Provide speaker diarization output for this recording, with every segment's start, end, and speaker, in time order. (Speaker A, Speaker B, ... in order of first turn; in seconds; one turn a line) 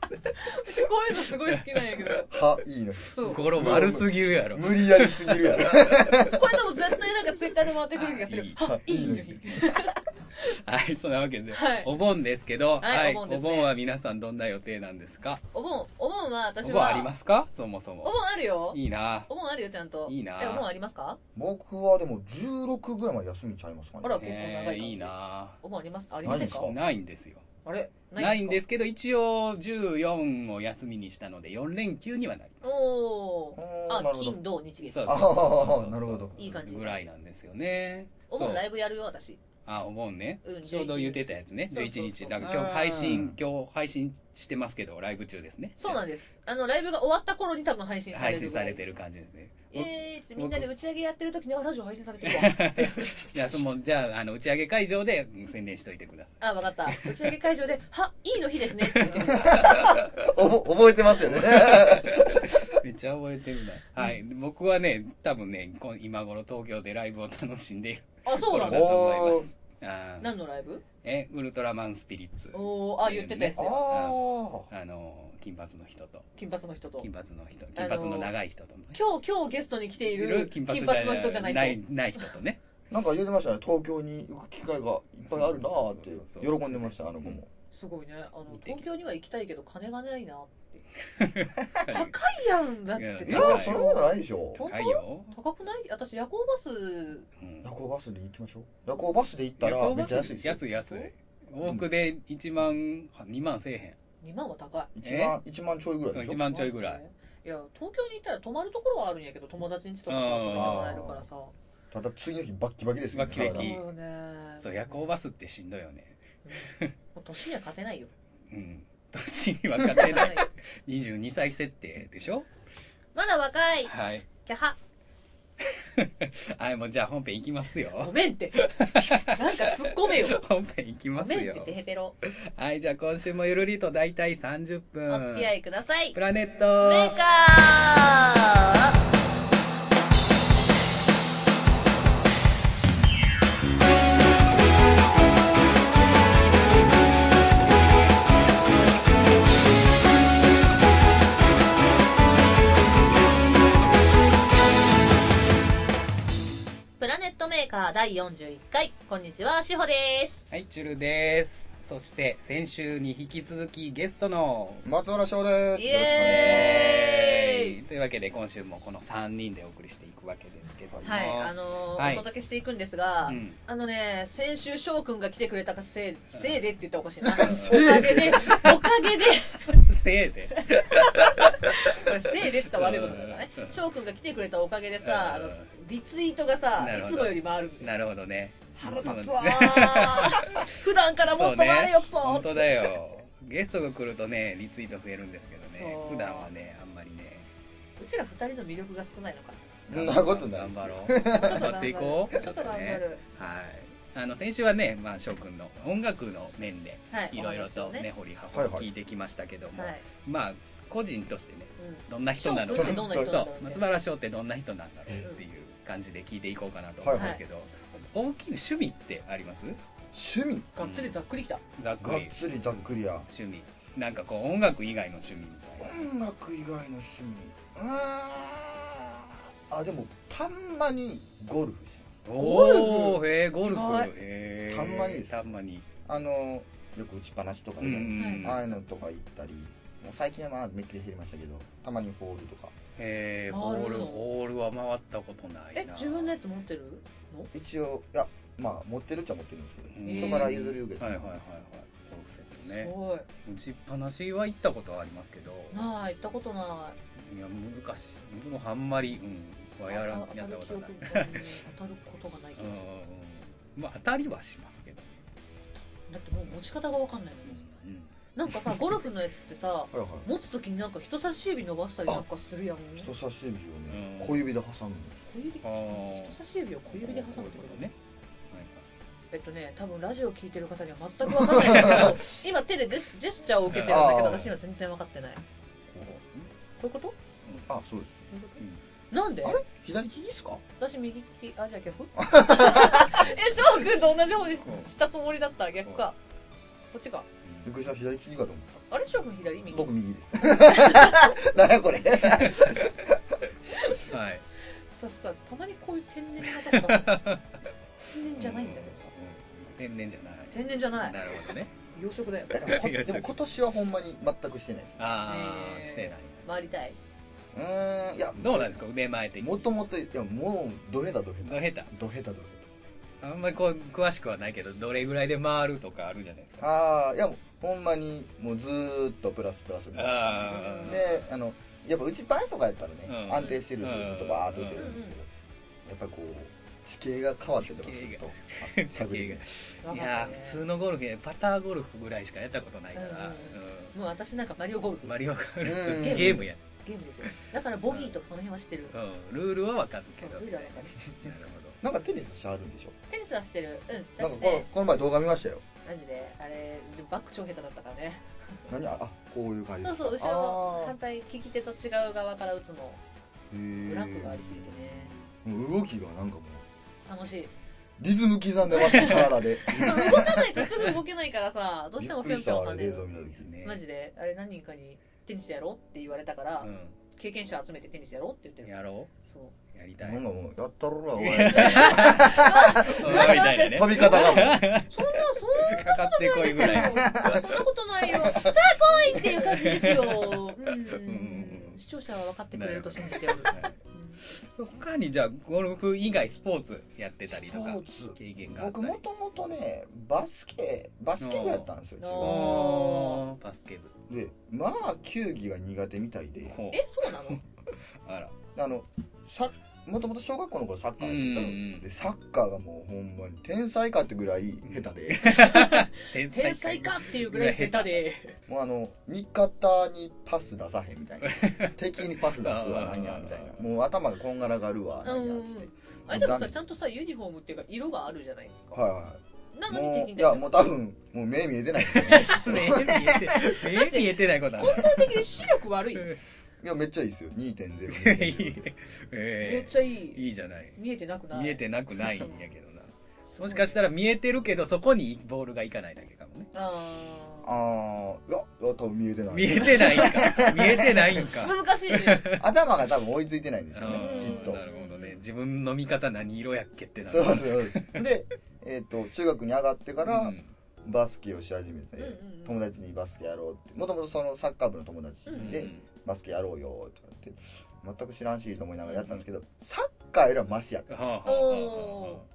Speaker A: 0.3-2.3
Speaker B: 1.4-2.2
Speaker C: 2.3-6.4
Speaker A: 3.1-3.5
Speaker B: 3.2-5.7
Speaker A: 6.1-10.0
Speaker B: 7.9-8.6
Speaker C: 8.6-9.7
Speaker B: 10.4-15.4
Speaker A: 11.5-11.9
Speaker A: 12.8-13.7
Speaker A: 15.5-17.1
Speaker B: 16.6-18.2
Speaker A: 18.0-21.2
Speaker B: 18.7-19.3
Speaker B: 20.1-20.7
Speaker C: 21.3-24.3
Speaker A: 24.0-26.7
Speaker B: 24.1-25.6
Speaker C: 26.2-26.8
Speaker B: 26.2-27.4
Speaker A: 27.6-28.6
Speaker B: 28.2-32.6
Speaker A: 32.6-35.6
Speaker C: 33.5-34.4
Speaker B: 34.8-38.6
Speaker C: 35.0-36.3
Speaker A: 36.4-37.1
Speaker A: 38.3-39.4
Speaker B: 39.6-46.0
Speaker A: 40.4-42.4
Speaker C: 42.4-43.4
Speaker A: 45.8-48.9
Speaker B: 48.1-50.7
Speaker A: 49.7-53.1
Speaker B: 52.2-57.3
Speaker A: 56.4-60.1
Speaker B: 58.9-60.0
Speaker C: 59.1-62.8
Speaker B: 61.2-70.3
Speaker A: 68.2-69.1
Speaker C: 68.7-69.5
Speaker A: 70.2-70.8
Speaker B: 71.0-76.3
Speaker A: 72.5-73.8
Speaker C: 73.5-74.7
Speaker A: 76.3-77.1
Speaker B: 77.0-79.0
Speaker A: 77.7-78.3
Speaker A: 78.9-81.8
Speaker B: 80.0-82.6
Speaker C: 82.9-87.5
Speaker B: 85.3-87.4
Speaker A: 87.7-90.8
Speaker B: 88.5-88.8
Speaker B: 91.2-92.1
Speaker A: 91.9-97.3
Speaker B: 93.0-93.9
Speaker C: 93.2-94.6
Speaker B: 94.6-95.3
Speaker B: 97.4-97.7
Speaker C: 97.6-100.6
Speaker B: 99.6-104.0
Speaker A: 100.7-101.1
Speaker C: 101.6-101.9
Speaker A: 104.2-104.9
Speaker C: 104.9-106.4
Speaker B: 105.0-105.4
Speaker B: 106.1-107.0
Speaker A: 106.5-111.5
Speaker B: 110.1-111.0
Speaker C: 110.5-111.2
Speaker C: 111.9-113.7
Speaker B: 113.1-113.8
Speaker A: 113.3-115.1
Speaker B: 114.6-116.9
Speaker A: 116.4-118.1
Speaker B: 118.5-122.5
Speaker A: 119.8-120.5
Speaker A: 123.1-124.8
Speaker B: 123.9-124.3
Speaker B: 125.6-135.5
Speaker A: 128.0-130.4
Speaker A: 131.2-132.1
Speaker A: 135.1-136.2
Speaker B: 136.1-137.2
Speaker A: 136.8-139.0
Speaker A: 157.0-160.4
Speaker B: 160.5-164.8
Speaker C: 164.8-167.1
Speaker A: 165.7-167.8
Speaker B: 166.2-172.2
Speaker C: 170.9-171.2
Speaker A: 171.0-179.8
Speaker B: 173.2-173.6
Speaker C: 177.2-178.7
Speaker B: 177.4-177.8
Speaker B: 179.7-183.8
Speaker A: 180.5-187.9
Speaker B: 185.0-185.7
Speaker B: 186.8-190.7
Speaker A: 188.7-192.9
Speaker B: 191.2-197.5
Speaker A: 195.7-196.5
Speaker A: 198.0-199.6
Speaker C: 199.9-201.8
Speaker B: 199.9-219.8
Speaker A: 201.1-203.2
Speaker A: 207.1-208.1
Speaker C: 208.5-208.9
Speaker A: 209.8-210.0
Speaker A: 211.8-213.9
Speaker C: 212.7-213.4
Speaker C: 217.0-217.4
Speaker A: 217.1-217.4
Speaker C: 220.1-220.7
Speaker A: 220.7-221.6
Speaker B: 220.8-221.2
Speaker B: 221.8-226.0
Speaker C: 222.0-223.3
Speaker C: 225.8-232.2
Speaker B: 232.2-235.9
Speaker A: 232.4-234.1
Speaker C: 234.7-235.4
Speaker C: 236.1-242.7
Speaker B: 237.8-238.7
Speaker A: 238.1-238.6
Speaker B: 243.0-246.3
Speaker A: 243.5-244.2
Speaker A: 245.7-247.5
Speaker C: 247.5-251.3
Speaker B: 249.9-252.9
Speaker A: 250.0-250.6
Speaker A: 252.7-253.3
Speaker B: 253.4-255.9
Speaker A: 255.7-257.0
Speaker B: 257.2-261.4
Speaker A: 259.9-262.9
Speaker B: 262.6-265.1
Speaker A: 266.1-267.6
Speaker B: 267.4-268.9
Speaker A: 268.3-273.1
Speaker C: 269.9-270.3
Speaker C: 273.0-275.2
Speaker B: 273.9-274.4
Speaker A: 275.3-277.9
Speaker B: 275.6-276.4
Speaker B: 276.9-277.9
Speaker B: 278.5-278.8
Speaker A: 279.3-285.4
Speaker C: 281.5-282.2
Speaker B: 281.7-282.1
Speaker B: 283.7-284.2
Speaker C: 283.8-284.5
Speaker B: 286.0-286.5
Speaker A: 286.8-287.2
Speaker B: 287.4-287.7
Speaker C: 287.7-288.2
Speaker A: 288.3-289.6
Speaker C: 289.4-290.6
Speaker A: 290.8-296.2
Speaker C: 292.1-293.3
Speaker B: 294.6-294.9
Speaker A: 296.9-297.2
Speaker B: 297.4-297.7
Speaker C: 297.6-298.8
Speaker A: 298.9-299.9
Speaker C: 299.7-303.4
Speaker A: 300.4-301.3
Speaker B: 302.2-302.9
Speaker A: 303.7-304.1
Speaker B: 303.9-304.4
Speaker A: 305.0-307.2
Speaker B: 306.6-307.5
Speaker A: 308.1-309.1
Speaker B: 308.3-311.7
Speaker A: 310.5-312.8
Speaker C: 312.5-315.0
Speaker B: 312.6-313.4
Speaker B: 315.0-316.6
Speaker A: 315.2-317.0
Speaker C: 317.5-318.8
Speaker B: 318.4-319.6
Speaker C: 319.4-322.7
Speaker B: 321.4-321.9
Speaker B: 323.2-326.6
Speaker C: 326.6-335.3
Speaker B: 329.9-331.2
Speaker A: 330.4-331.0
Speaker B: 333.1-335.0
Speaker A: 334.8-335.2
Speaker C: 335.8-339.4
Speaker B: 337.6-343.9
Speaker A: 339.8-340.6
Speaker A: 342.9-345.1
Speaker B: 345.0-346.6
Speaker C: 345.6-346.5
Speaker A: 345.8-348.9
Speaker B: 347.9-348.1
Speaker B: 348.9-351.8
Speaker A: 350.1-351.0
Speaker C: 351.8-352.9
Speaker A: 353.1-354.7
Speaker C: 354.2-355.6
Speaker A: 355.8-358.2
Speaker C: 358.7-360.9
Speaker A: 359.8-363.0
Speaker C: 363.5-364.4
Speaker A: 363.8-365.1
Speaker B: 364.5-365.3
Speaker C: 365.4-366.6
Speaker A: 367.1-367.5
Speaker C: 368.0-370.7
Speaker A: 368.7-373.1
Speaker B: 368.8-369.3
Speaker C: 372.0-373.5
Speaker B: 373.4-373.8
Speaker A: 373.6-378.7
Speaker B: 376.6-377.0
Speaker B: 378.6-379.1
Speaker A: 379.2-379.5
Speaker B: 379.7-380.2
Speaker C: 380.0-384.6
Speaker B: 381.2-387.5
Speaker A: 381.4-394.2
Speaker C: 386.7-387.6
Speaker C: 388.2-388.6
Speaker B: 389.1-391.8
Speaker B: 392.5-393.7
Speaker B: 394.4-399.0
Speaker C: 397.3-402.6
Speaker B: 401.2-403.9
Speaker A: 402.0-403.2
Speaker C: 404.1-406.6
Speaker B: 406.5-407.4
Speaker A: 406.7-407.4
Speaker B: 408.0-408.4
Speaker C: 408.5-415.3
Speaker B: 411.0-411.9
Speaker B: 414.6-418.0
Speaker A: 415.2-418.4
Speaker C: 418.5-426.5
Speaker B: 421.2-423.5
Speaker A: 425.0-428.8
Speaker C: 428.7-433.4
Speaker A: 429.5-430.7
Speaker B: 431.9-435.2
Speaker A: 433.4-436.1
Speaker C: 436.6-438.7
Speaker B: 437.9-440.8
Speaker A: 439.4-440.2
Speaker A: 440.8-441.6
Speaker B: 441.3-446.5
Speaker A: 443.3-443.8
Speaker A: 446.5-447.5
Speaker C: 447.4-451.3
Speaker B: 449.3-452.5
Speaker A: 451.2-452.3
Speaker C: 452.3-454.6
Speaker B: 453.7-458.1
Speaker A: 453.9-455.2
Speaker C: 457.0-471.1
Speaker B: 460.0-460.5
Speaker A: 462.0-462.6
Speaker A: 465.2-465.7
Speaker B: 465.3-465.8
Speaker B: 470.9-472.2
Speaker A: 471.2-472.2